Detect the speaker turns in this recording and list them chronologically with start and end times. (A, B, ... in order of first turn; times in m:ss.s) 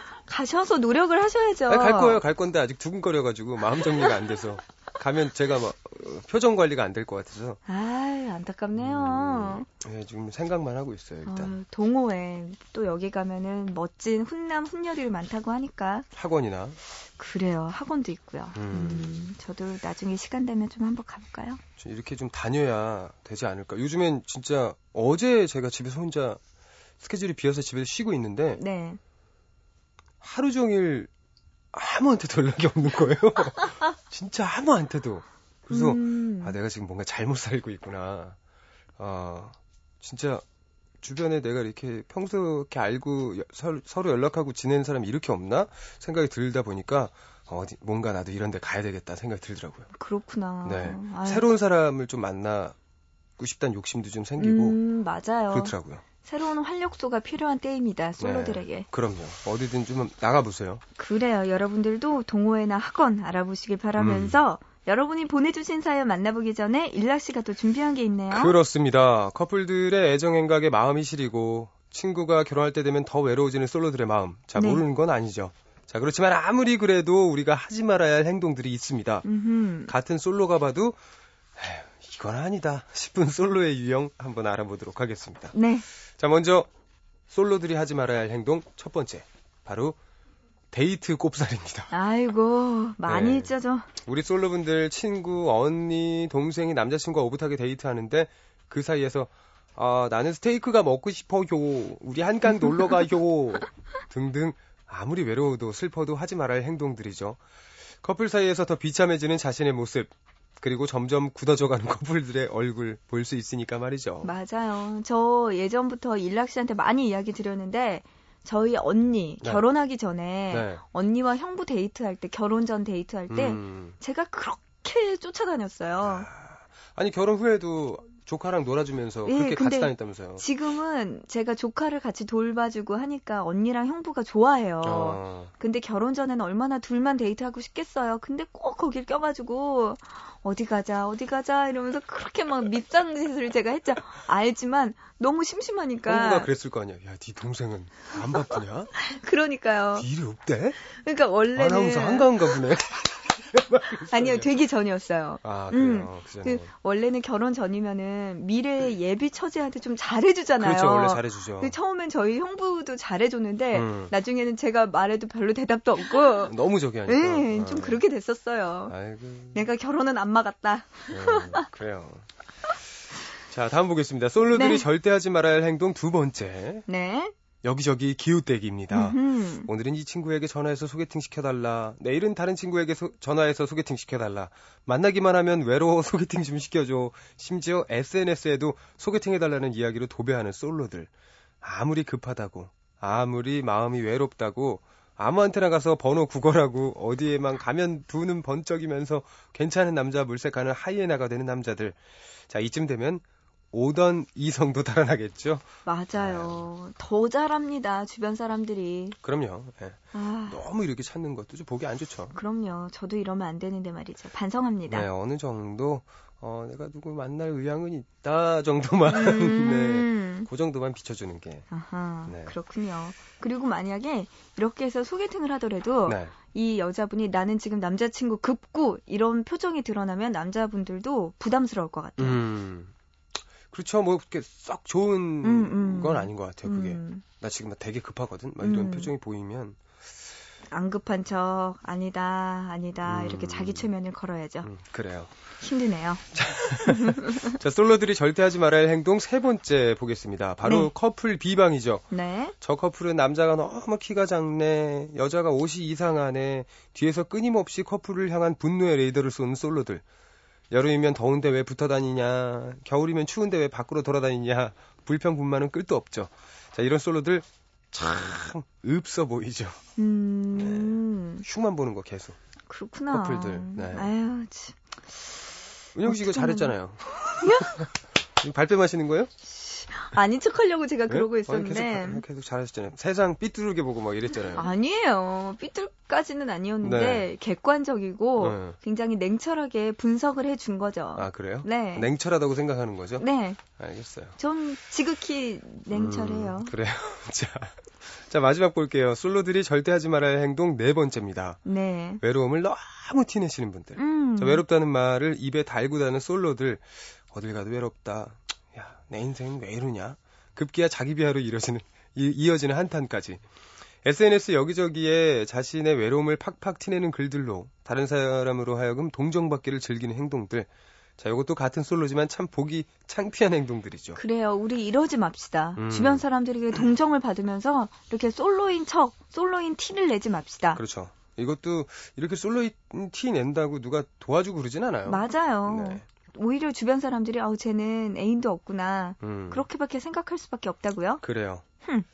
0:00.3-0:02.2 A
0:01.7-0:07.6 B
0:07.7-0:09.6 A
0:08.8-0:11.5 B
0:11.2-0:16.1 A
0:16.1-0:16.8 B
0:17.2-0:21.6 A
0:18.5-0:19.3 B
0:21.8-0:26.4 B
0:27.0-0:28.6 B
0:28.6-0:29.0 A
0:30.2-0:31.1 B
0:31.7-0:38.4 B
0:35.7-0:36.6 A
0:39.0-0:40.4 B
0:41.0-0:49.9 B
0:50.0-0:51.5 A
0:50.6-0:52.8 B
0:53.4-0:54.8 B
0:54.4-0:58.9 A
0:55.5-0:56.0 B
0:58.2-1:00.8 B
1:01.0-1:08.5 A
1:04.0-1:04.4 B
1:08.3-1:19.3 B
1:14.6-1:14.8 A
1:19.2-1:19.9 A
1:19.9-1:21.0 B
1:21.6-1:25.5 B
1:25.5-1:25.8 A
1:26.2-1:26.7 B
1:27.3-1:30.0 B
1:30.7-1:31.9 B
1:31.9-1:33.8 A
1:33.0-1:33.5 B
1:34.0-1:47.4 B
1:48.0-1:54.3 B
1:54.2-2:06.3 A
2:00.5-2:00.8 B
2:03.3-2:04.0 B
2:06.0-2:10.4 B
2:09.2-2:26.5 A
2:14.8-2:15.5 B
2:26.0-2:28.9 B
2:29.0-2:30.1 A
2:30.0-2:30.8 B
2:30.9-2:32.5 A
2:31.5-2:34.5 B
2:34.1-2:46.5 A
2:35.4-2:36.7 B
2:40.6-2:41.7 B
2:43.7-2:44.1 B
2:46.4-2:48.0 B
2:47.0-2:48.9 A
2:48.9-2:49.7 B
2:49.5-2:51.6 A
2:51.1-2:52.3 B
2:53.5-2:56.8 B
2:54.5-2:54.8 A
2:56.9-2:57.3 A
2:57.6-3:11.1 B
2:58.9-2:59.7 A
3:11.6-3:26.7 B
3:25.8-3:29.2 A
3:29.2-3:32.3 B
3:30.1-3:30.6 A
3:32.3-3:35.1 A
3:34.9-3:41.7 B
3:39.1-3:40.5 A
3:41.7-3:52.4 A
3:42.3-3:42.5 B
3:46.0-3:46.3 B
3:52.2-3:52.9 B
3:53.7-4:00.0 B
3:55.4-3:57.2 A
3:58.6-3:59.1 A
4:00.7-4:04.7 A
4:03.0-4:03.9 B
4:04.6-4:05.3 B
4:05.6-4:06.3 A
4:06.3-4:12.0 B
4:06.8-4:07.5 A
4:10.6-4:10.9 A
4:12.1-4:12.5 A
4:12.6-4:20.0 B
4:20.7-4:29.8 B
4:30.0-4:31.4 A
4:30.5-4:32.4 B
4:32.7-4:35.3 A
4:33.1-4:34.1 B
4:35.9-4:37.9 B
4:36.0-4:36.7 A
4:37.3-4:37.8 A
4:38.4-4:39.3 B
4:39.5-4:42.2 A
4:41.1-4:44.7 B
4:44.5-4:52.1 A
4:46.8-4:47.3 B
4:48.4-4:48.8 B
4:51.1-4:54.4 B
4:53.2-4:53.6 A
4:54.4-4:56.7 A
4:55.9-5:01.6 B
5:01.6-5:02.2 A
5:02.2-5:13.4 B
5:04.0-5:04.6 A
5:14.0-5:24.2 B
5:24.2-5:30.8 A
5:25.8-5:26.2 B
5:30.7-5:36.0 B
5:35.1-5:41.2 A
5:39.2-5:39.6 B
5:41.2-5:41.6 B